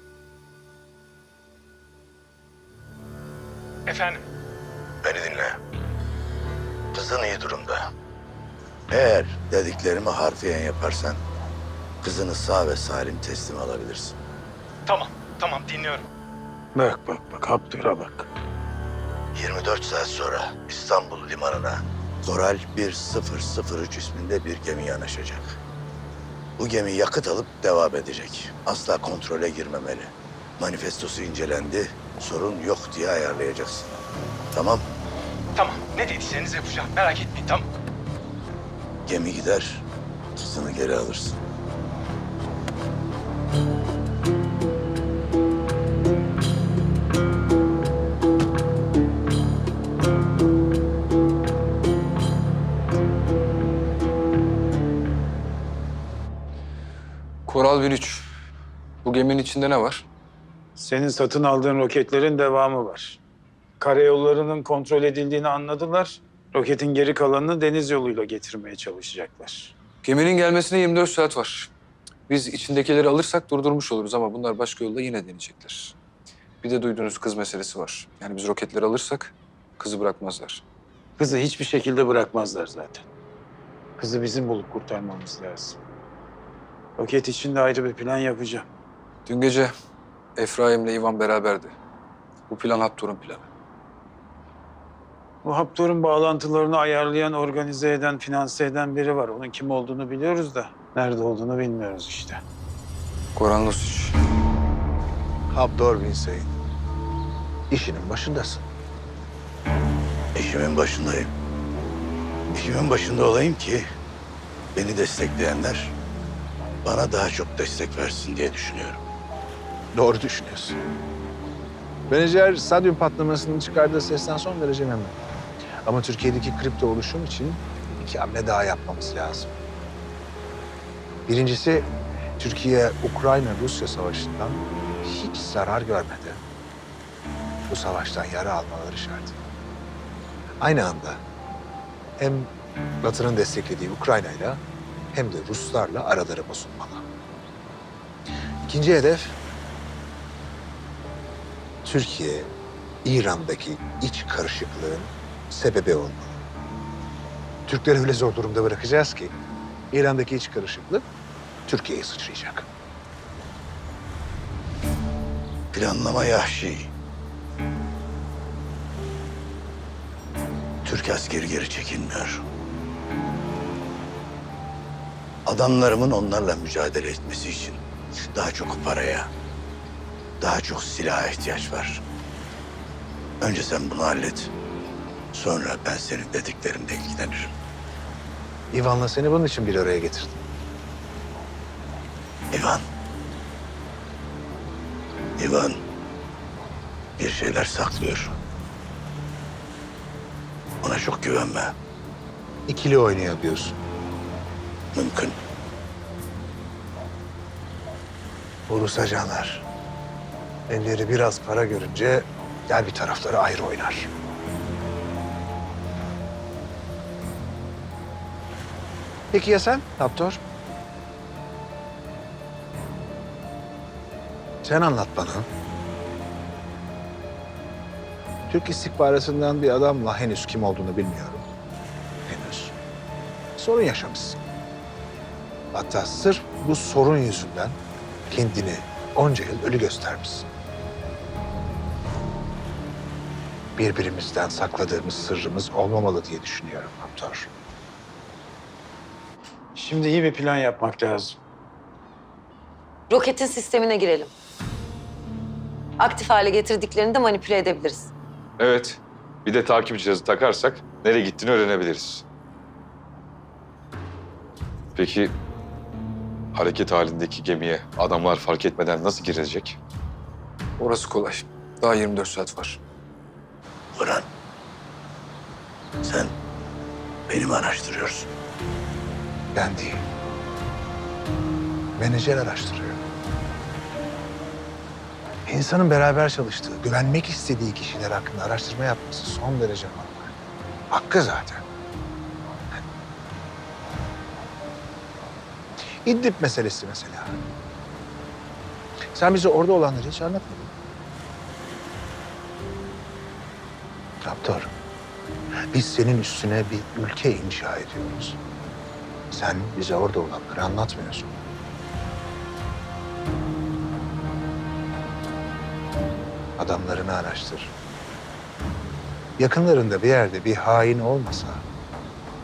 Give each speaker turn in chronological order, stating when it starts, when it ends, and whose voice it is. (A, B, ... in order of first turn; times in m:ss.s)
0:03.9-0:04.2 A
0:05.0-0:05.6 B
0:06.9-0:07.8 B
0:08.9-0:11.2 B
0:12.0-0:14.2 B
0:14.9-0:16.1 A
0:16.7-0:18.3 C
0:19.3-0:25.5 B
0:26.6-0:34.0 B
0:34.5-0:34.8 B
0:35.5-0:37.6 A
0:39.0-0:39.8 B
0:40.4-0:41.4 B
0:57.4-0:58.2 D
0:59.0-1:00.0 D
1:00.8-1:03.2 C
1:03.8-1:09.7 C
1:10.0-1:11.7 D
1:12.3-1:15.9 D
1:16.6-1:20.6 D
1:21.2-1:23.0 C
1:24.0-1:25.8 C
1:27.0-1:28.6 C
1:29.2-1:29.7 D
1:30.4-1:31.7 D
1:32.5-1:33.5 D
1:35.4-1:42.4 C
1:43.3-1:44.2 D
1:45.5-1:46.5 E
1:47.7-1:48.7 E
1:50.3-1:51.3 B
1:52.5-1:53.8 B
1:54.7-1:55.9 B
1:56.8-1:59.0 B
1:59.9-2:00.8 E
2:02.1-2:05.2 E
2:05.8-2:09.5 E
2:11.3-2:16.4 E
2:17.7-2:19.4 E
2:20.6-2:21.2 E
2:22.2-2:22.5 E
2:23.0-2:24.6 E
2:25.1-2:27.0 E
2:28.6-2:29.4 E
2:31.8-2:32.5 E
2:33.0-2:36.4 E
2:37.7-2:39.3 E
2:39.9-2:41.0 E
2:41.7-2:42.7 E
2:45.7-2:46.9 B
2:50.8-2:52.4 B
2:55.4-2:57.8 B
2:58.3-2:59.3 B
3:00.4-3:02.0 B
3:03.4-3:04.5 B
3:05.3-3:07.5 B
3:08.7-3:10.4 E
3:12.5-3:12.8 B
3:15.4-3:15.8 B
3:17.2-3:18.4 B
3:20.8-3:21.7 B
3:22.7-3:23.8 E
3:24.9-3:25.4 B
3:28.7-3:29.6 E
3:30.7-3:34.1 E
3:39.3-3:40.4 E
3:44.6-3:45.5 E
3:48.5-3:51.4 E
3:52.3-3:52.7 E
3:53.6-3:54.4 E
3:55.7-3:57.8 E
3:58.3-4:00.5 E
4:03.8-4:07.5 E
4:09.7-4:11.4 C
4:13.1-4:14.3 F
4:16.0-4:18.1 F
4:18.6-4:22.2 G
4:25.0-4:25.3 G
4:26.5-4:29.8 G
4:30.8-4:32.8 D
4:33.9-4:34.2 B
4:36.0-4:36.3 B
4:37.3-4:38.3 B
4:39.5-4:40.0 E
4:42.0-4:43.0 E
4:45.4-4:50.3 E
4:50.9-4:51.6 E
4:56.0-4:57.4 E
4:59.1-5:00.7 E
5:04.2-5:04.7 E
5:05.7-5:08.4 E
5:09.3-5:11.4 E
5:16.6-5:17.7 E
5:19.4-5:21.6 E